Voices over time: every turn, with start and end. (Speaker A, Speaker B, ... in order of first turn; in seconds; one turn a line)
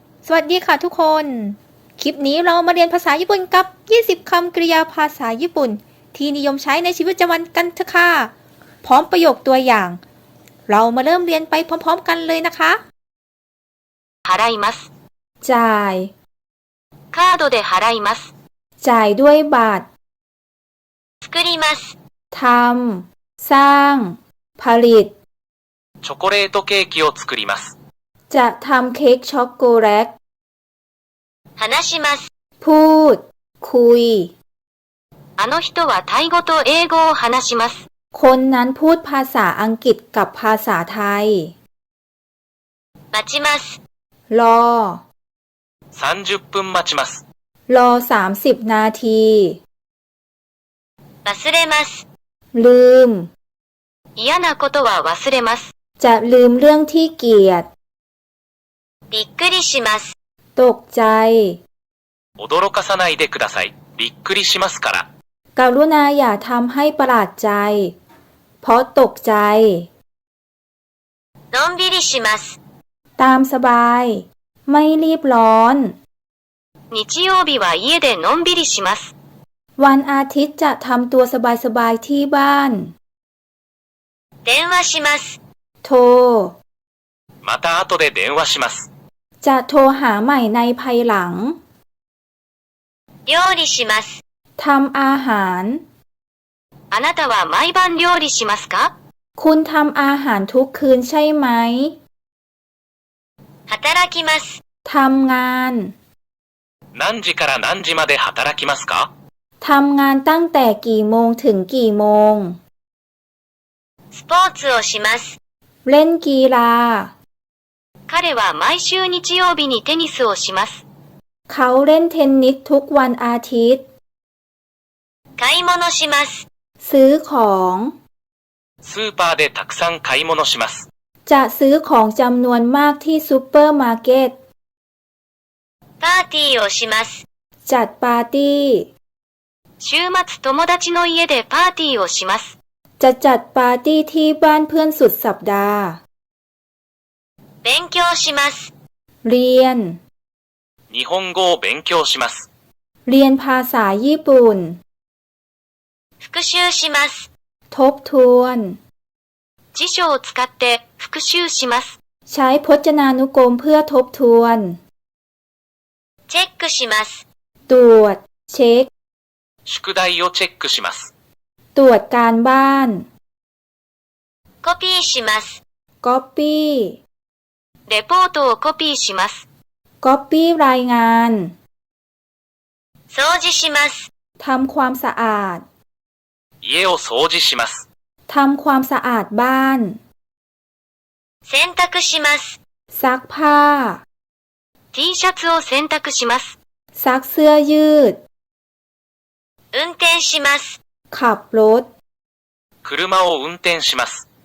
Speaker A: 0.2-8.3
Speaker A: 8.8-10.0
Speaker A: 10.7-12.8
Speaker B: 14.2-14.8
Speaker A: 15.4-16.1
Speaker B: 17.1-18.3
Speaker A: 18.8-19.9
Speaker B: 21.2-21.9
Speaker A: 22.3-25.1
Speaker C: 26.0-27.7
Speaker A: 28.3-30.1
Speaker B: 31.6-32.2
Speaker A: 32.6-34.3
Speaker B: 35.4-37.8
Speaker A: 38.1-41.5
Speaker A: 44.3-45.0
Speaker C: 45.9-47.2
Speaker A: 47.7-49.6
Speaker B: 51.3-51.8
Speaker A: 52.5-53.3
Speaker B: 54.1-55.7
Speaker A: 56.0-57.7
Speaker B: 59.1-59.9
Speaker A: 60.5-61.6
Speaker C: 62.4-65.1
Speaker A: 65.5-68.0
Speaker A: 68.6-69.9
Speaker B: 71.6-72.3
Speaker A: 73.2-76.0
Speaker B: 76.9-79.1
Speaker A: 79.8-82.9
Speaker A: 85.8-86.5
Speaker C: 87.4-88.9
Speaker A: 89.4-91.6
Speaker B: 93.3-94.0
Speaker A: 94.6-95.8
Speaker B: 96.9-98.9
Speaker A: 99.4-102.0
Speaker B: 103.7-104.4
Speaker A: 104.8-105.9
Speaker C: 106.9-109.1
Speaker A: 109.6-112.6
Speaker B: 114.1-115.3
Speaker A: 115.8-117.1
Speaker B: 118.1-120.8
Speaker A: 121.5-123.8
Speaker B: 125.4-126.1
Speaker A: 126.8-127.9
Speaker C: 128.8-130.9
Speaker A: 131.2-134.3
Speaker B: 136.0-137.2
Speaker A: 137.7-138.9
Speaker B: 139.8-142.5
Speaker A: 143.0-146.0
Speaker B: 147.6-148.5
Speaker A: 149.2-150.0
Speaker C: 150.9-152.5
Speaker A: 153.1-154.8
Speaker B: 156.2-157.1
Speaker A: 157.7-158.8
Speaker B: 159.7-161.9
Speaker A: 162.3-164.8
Speaker A: 167.7-168.9
Speaker C: 169.7-171.1
Speaker A: 171.7-173.1
Speaker B: 174.6-175.4
Speaker A: 176.0-177.0
Speaker B: 177.9-179.4
Speaker A: 180.0-181.5
Speaker B: 183.1-183.9
Speaker A: 184.4-185.6
Speaker C: 186.6-187.8
Speaker A: 188.3-190.0
Speaker B: 191.5-192.3
Speaker A: 192.9-194.0
Speaker B: 194.9-196.5
Speaker A: 196.9-198.2
Speaker A: 201.1-201.9
Speaker C: 202.8-204.2